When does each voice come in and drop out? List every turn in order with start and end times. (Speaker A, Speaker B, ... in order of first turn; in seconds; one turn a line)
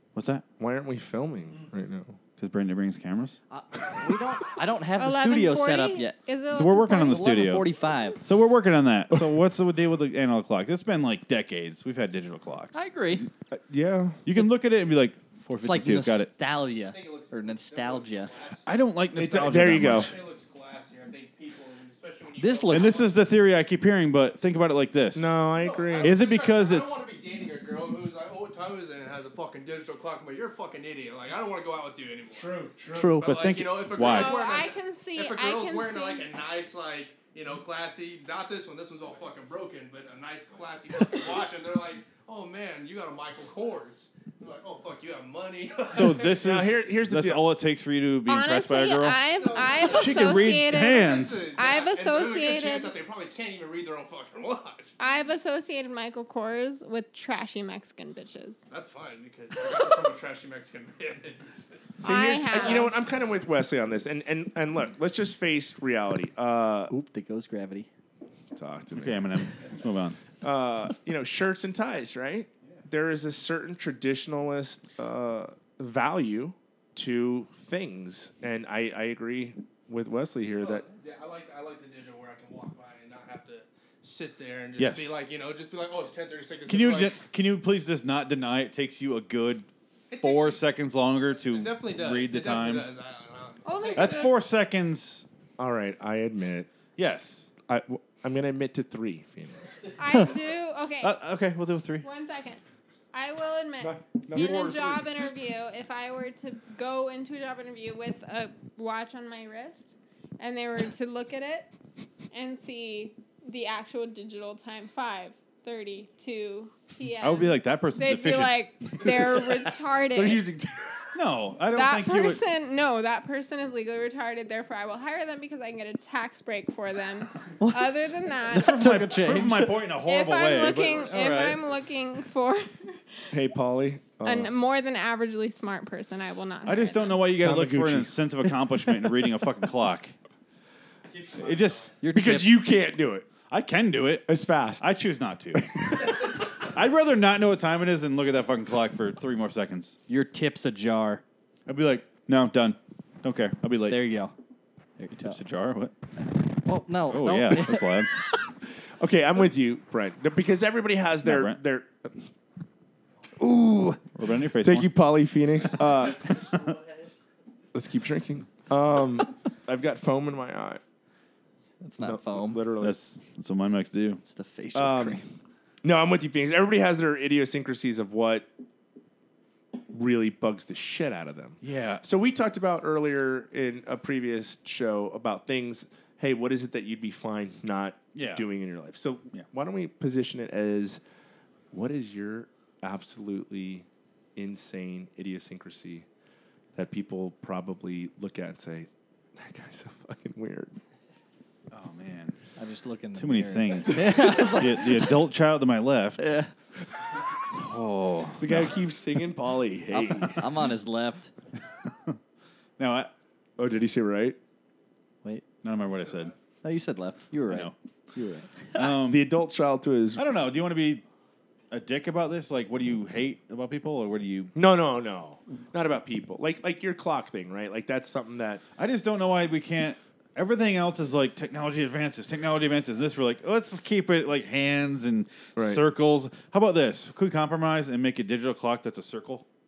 Speaker A: 0.1-0.4
Speaker B: 0.6-2.2
Speaker A: 2.4-3.4
Speaker C: 3.5-6.2
Speaker D: 5.0-7.3
Speaker A: 6.5-7.7
Speaker C: 6.9-8.2
Speaker A: 8.2-12.9
Speaker C: 12.7-13.3
Speaker B: 13.5-14.2
Speaker A: 14.2-16.3
Speaker C: 15.6-18.3
Speaker E: 16.8-18.8
Speaker A: 18.6-20.1
Speaker B: 19.1-20.1
Speaker E: 19.6-23.2
Speaker C: 22.4-23.1
Speaker A: 22.7-25.4
Speaker B: 25.1-26.2
Speaker E: 25.6-32.7
Speaker A: 26.0-27.0
Speaker B: 32.3-33.1
Speaker C: 32.9-33.4
Speaker E: 33.2-46.4
Speaker A: 33.2-34.4
Speaker D: 34.0-36.3
Speaker A: 45.9-49.2
Speaker B: 46.2-47.4
Speaker D: 48.3-52.9
Speaker E: 49.4-54.9
Speaker A: 49.8-51.5
Speaker D: 55.0-58.6
Speaker E: 58.7-61.6
Speaker B: 62.0-66.9
Speaker D: 62.0-63.0
Speaker C: 66.9-67.9
Speaker B: 68.5-69.4
Speaker A: 68.9-70.2
Speaker B: 70.4-80.8
Speaker E: 80.5-87.2
Speaker A: 84.8-85.2
Speaker A: 86.7-92.9
Speaker E: 90.1-90.6
Speaker E: 91.4-94.3
Speaker D: 93.6-94.3
Speaker A: 93.9-95.3
Speaker B: 95.6-96.7
Speaker A: 97.0-97.5
Speaker B: 97.7-99.9
Speaker D: 100.0-101.2
Speaker A: 101.0-102.0
Speaker D: 102.0-102.6
Speaker D: 103.1-111.7
Speaker B: 103.8-105.1
Speaker D: 112.3-120.4
Speaker A: 117.2-118.6
Speaker B: 119.0-119.3
Speaker B: 120.1-121.0
Speaker A: 121.1-122.4
Speaker D: 121.7-129.1
Speaker C: 127.6-128.0
Speaker C: 128.5-129.8
Speaker A: 128.5-131.6
Speaker D: 130.0-133.3
Speaker B: 133.3-134.5
Speaker D: 134.2-137.1
Speaker A: 136.6-140.1
Speaker B: 137.4-138.2
Speaker A: 141.4-141.9
Speaker C: 142.0-142.6
Speaker B: 142.1-143.3
Speaker A: 143.5-150.0
Speaker B: 144.3-144.9
Speaker B: 145.6-146.1
Speaker C: 150.1-151.2
Speaker A: 151.7-154.1
Speaker C: 153.9-154.3
Speaker C: 155.0-155.4
Speaker A: 155.2-155.9
Speaker C: 156.3-158.2
Speaker A: 157.1-158.1
Speaker B: 159.0-162.3
Speaker A: 161.2-161.6
Speaker A: 164.1-164.9
Speaker B: 164.6-166.3
Speaker B: 167.7-170.8
Speaker C: 171.8-172.6
Speaker B: 172.0-173.0
Speaker A: 172.8-174.2
Speaker C: 174.2-175.2
Speaker B: 174.7-175.2
Speaker B: 175.8-178.5
Speaker B: 179.9-191.0
Speaker A: 181.6-182.0
Speaker A: 188.1-188.4
Speaker B: 191.7-196.1
Speaker B: 196.7-200.8
Speaker A: 201.7-202.3
Speaker C: 202.6-205.3
Speaker A: 203.1-206.3
Speaker C: 206.2-206.5
Speaker A: 207.5-208.7
Speaker B: 208.4-210.4
Speaker C: 209.9-211.3
Speaker A: 211.8-212.2
Speaker A: 212.8-213.1
Speaker B: 213.6-214.4
Speaker A: 215.6-216.3
Speaker C: 216.6-218.8
Speaker A: 217.5-217.7
Speaker A: 218.7-219.3
Speaker B: 219.1-220.2
Speaker A: 220.2-221.0
Speaker A: 221.7-224.5
Speaker B: 224.5-228.6
Speaker A: 228.8-239.4
Speaker B: 235.6-235.8